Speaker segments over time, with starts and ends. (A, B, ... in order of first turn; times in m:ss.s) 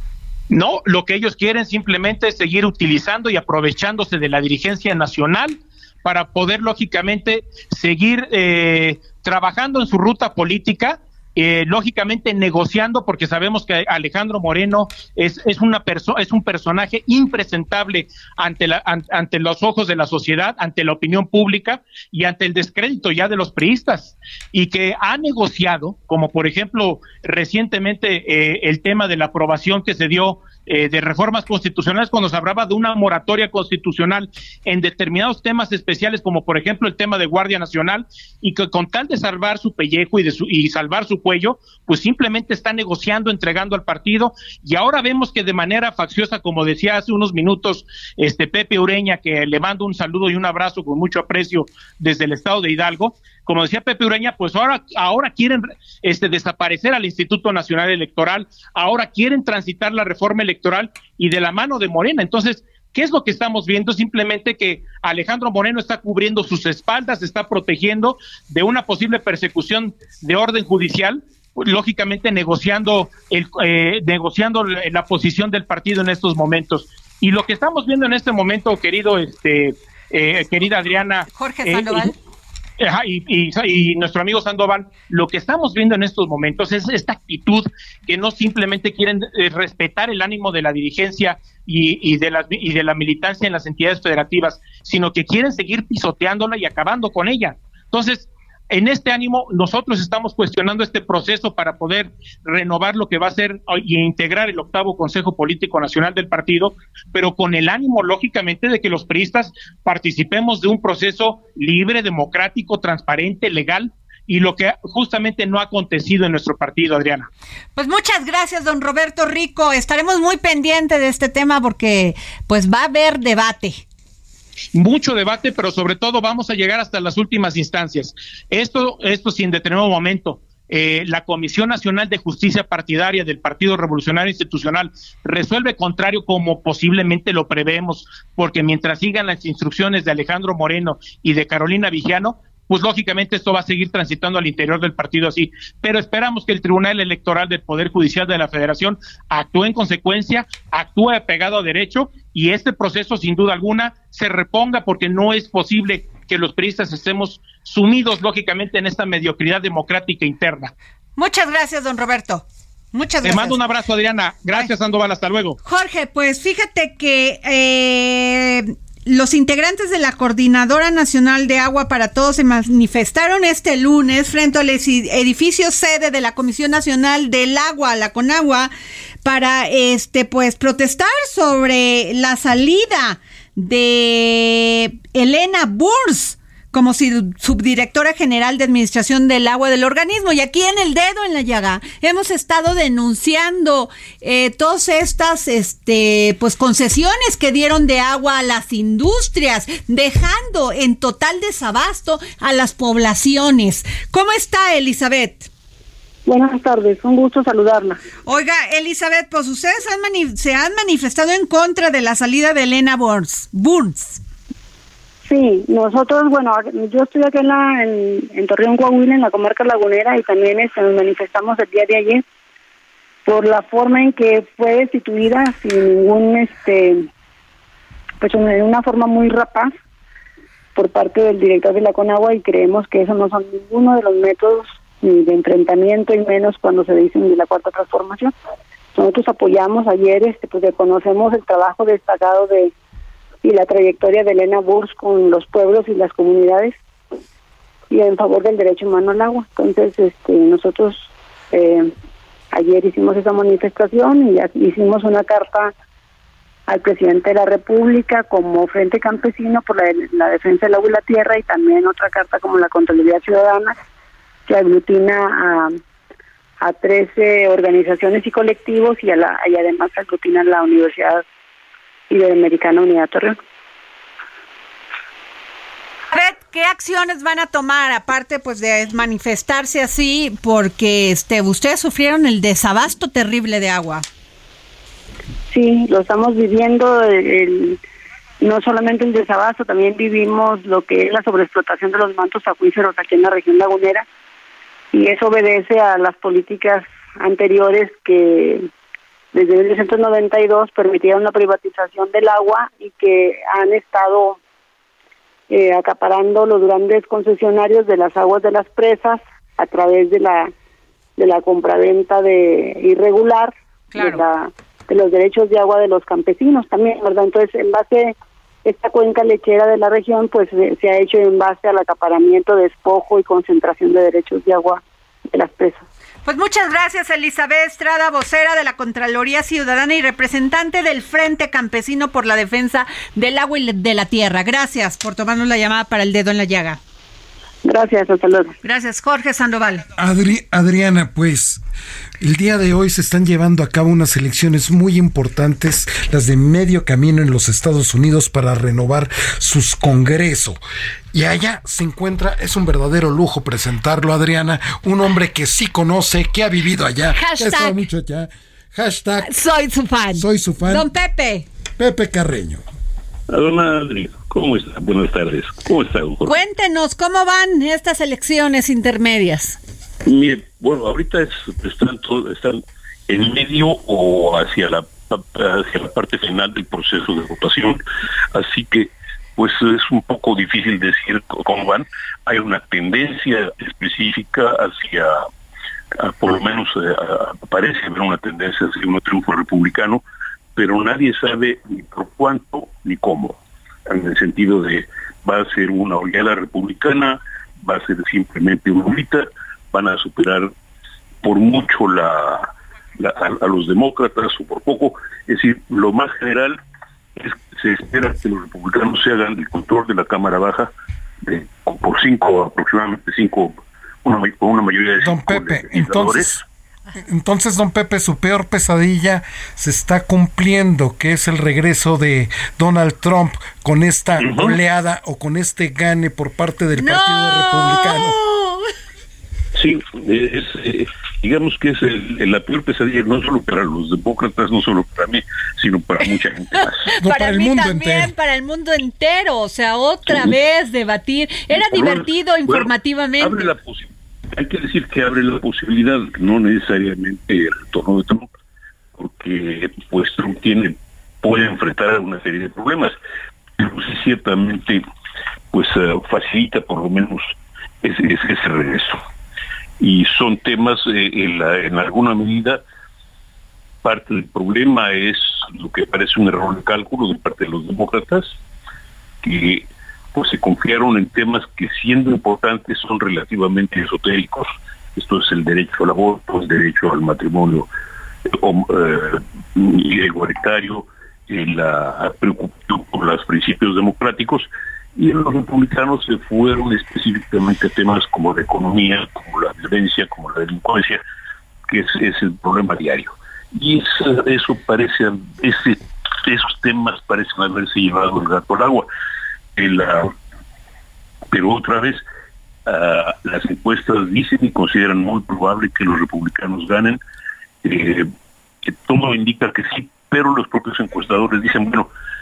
0:00.5-1:22.1 A
1:21.3-1:22.1 B
1:22.8-1:57.3 A
1:57.8-2:03.8 B
2:04.7-2:40.7 A
2:41.2-2:43.6 B
2:43.2-2:45.6 A
2:45.6-2:58.7 B
2:59.2-3:25.5 B
3:26.2-3:28.0 C
3:28.2-3:34.2 B
3:35.2-3:42.2 C
3:43.2-3:47.1 C
3:48.2-3:49.7 C
3:50.8-3:58.3 C
3:58.9-4:02.7 C
4:03.4-4:06.8 C
4:07.9-4:11.9 C
4:12.5-4:15.7 C
4:16.7-4:23.8 C
4:24.5-4:25.7 C
4:26.6-4:31.2 C
4:32.1-4:33.4 C
4:36.1-4:44.0 B
4:45.5-4:47.8 C
4:48.4-4:54.0 C
4:54.9-4:58.7 C
4:59.3-5:04.4 C
5:05.5-5:10.5 C
5:11.2-5:25.8 C
5:13.9-5:14.2 B
5:26.2-5:36.8 B
5:37.6-5:38.5 C
5:38.6-5:39.8 B
5:40.0-5:41.6 D
5:42.2-5:50.6 D
5:51.1-5:59.3 D
5:57.1-5:57.8 B
5:59.2-6:01.4 B
6:00.1-6:00.8 D
6:01.8-6:02.6 D
6:03.3-6:06.4 E
6:06.2-6:09.6 B
6:10.0-6:17.8 E
6:18.3-6:25.2 E
6:26.0-6:30.0 E
6:30.6-6:40.5 E
6:41.2-6:46.6 E
6:47.2-6:50.7 E
6:51.2-6:56.4 E
6:55.0-6:56.4 D
6:57.0-7:08.2 D
7:04.2-7:04.5 E
7:06.8-7:08.7 B
7:09.5-7:16.9 E
7:16.9-7:23.5 B
7:17.0-7:18.1 D
7:20.1-7:20.3 E
7:21.5-7:28.3 E
7:29.0-7:32.9 E
7:33.6-7:34.8 E
7:35.5-7:39.0 E
7:39.8-7:42.6 E
7:43.8-7:48.4 E
7:49.2-7:57.7 E
7:58.3-8:11.0 E
8:11.7-8:18.9 E
8:19.6-8:20.1 E
8:21.3-8:22.0 E
8:22.7-8:27.0 E
8:27.6-8:28.1 E
8:28.7-8:31.9 E